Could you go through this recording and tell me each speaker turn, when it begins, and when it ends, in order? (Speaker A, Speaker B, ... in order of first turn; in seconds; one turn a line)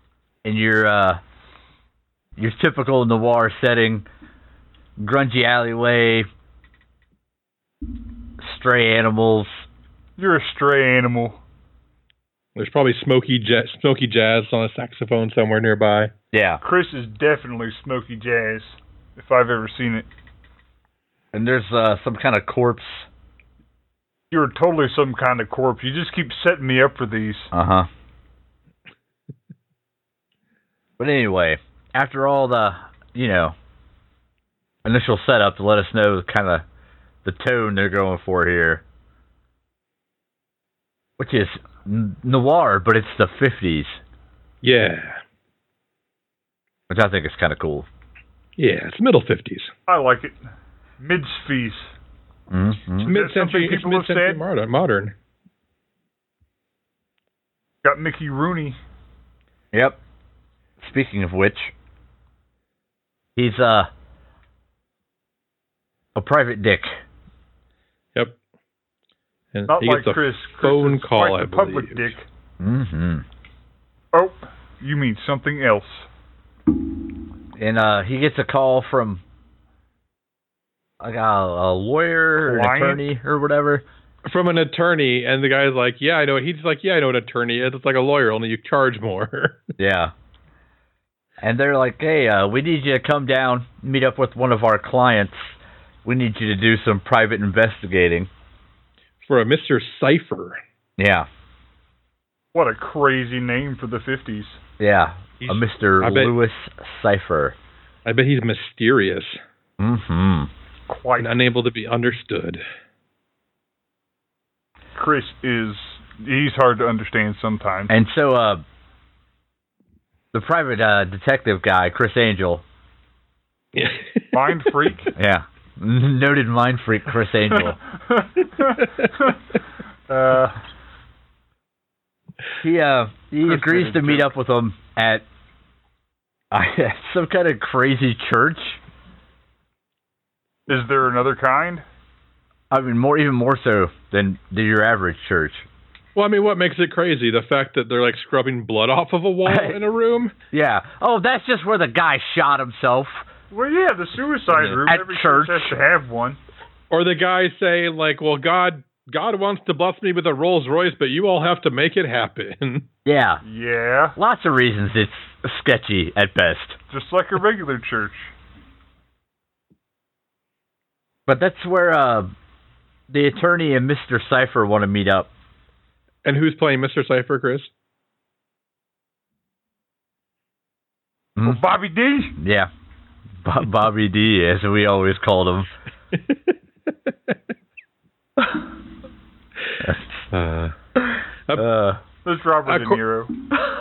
Speaker A: 0.4-1.2
Speaker A: 2.4-4.0
Speaker A: 5.0-6.3
Speaker A: 8.4-9.6
Speaker B: 10.2-11.4
Speaker C: 12.6-16.1
Speaker A: 16.3-16.6
Speaker B: 16.6-20.1
Speaker A: 21.3-23.1
Speaker B: 24.3-27.5
Speaker A: 27.5-27.9
Speaker A: 31.0-33.5
Speaker A: 34.8-36.6
Speaker A: 37.2-38.8
Speaker A: 41.2-44.0
Speaker C: 44.6-45.2
Speaker A: 46.9-47.9
Speaker C: 48.6-49.7
Speaker B: 49.9-50.4
Speaker B: 51.0-51.9
Speaker A: 52.5-53.1
Speaker B: 53.0-54.4
Speaker C: 53.0-55.1
Speaker B: 57.8-58.8
Speaker A: 59.7-60.0
Speaker A: 60.8-61.7
Speaker A: 63.4-63.9
Speaker A: 66.2-67.0
Speaker C: 69.5-72.1
Speaker B: 69.7-72.2
Speaker A: 72.6-73.2
Speaker B: 74.1-76.1
Speaker A: 77.5-79.2
Speaker A: 81.0-83.8
Speaker B: 82.4-83.0
Speaker C: 84.2-89.6
Speaker A: 89.8-90.1
Speaker A: 91.4-98.3
Speaker C: 99.2-100.6
Speaker A: 101.0-101.3
Speaker B: 102.5-104.6
Speaker A: 104.8-107.5
Speaker C: 105.4-106.3
Speaker C: 108.0-109.4
Speaker A: 109.8-110.5
Speaker B: 110.9-111.4
Speaker C: 111.2-112.6
Speaker B: 115.0-117.9
Speaker A: 117.9-118.6
Speaker A: 120.3-122.6
Speaker C: 123.7-124.9
Speaker B: 124.3-125.1
Speaker A: 125.2-127.8
Speaker B: 127.5-129.4
Speaker C: 128.8-129.1
Speaker B: 130.1-130.6
Speaker A: 132.6-135.2
Speaker B: 133.4-134.3
Speaker A: 136.5-138.8
Speaker B: 140.7-141.8
Speaker A: 142.7-145.7
Speaker C: 146.1-150.3
Speaker A: 149.4-149.8
Speaker A: 150.5-153.2
Speaker B: 153.5-156.4
Speaker A: 154.5-155.7
Speaker C: 156.9-162.8
Speaker A: 163.0-163.4
Speaker B: 163.4-164.2
Speaker A: 164.2-166.8
Speaker B: 166.9-168.3
Speaker A: 171.3-172.3
Speaker A: 173.1-175.3
Speaker C: 176.2-177.7
Speaker B: 181.4-182.3
Speaker A: 182.4-182.7
Speaker A: 183.4-185.7
Speaker C: 186.1-186.4
Speaker A: 189.8-190.3
Speaker C: 190.3-190.7
Speaker A: 191.0-192.0
Speaker B: 192.2-193.3
Speaker C: 192.7-193.0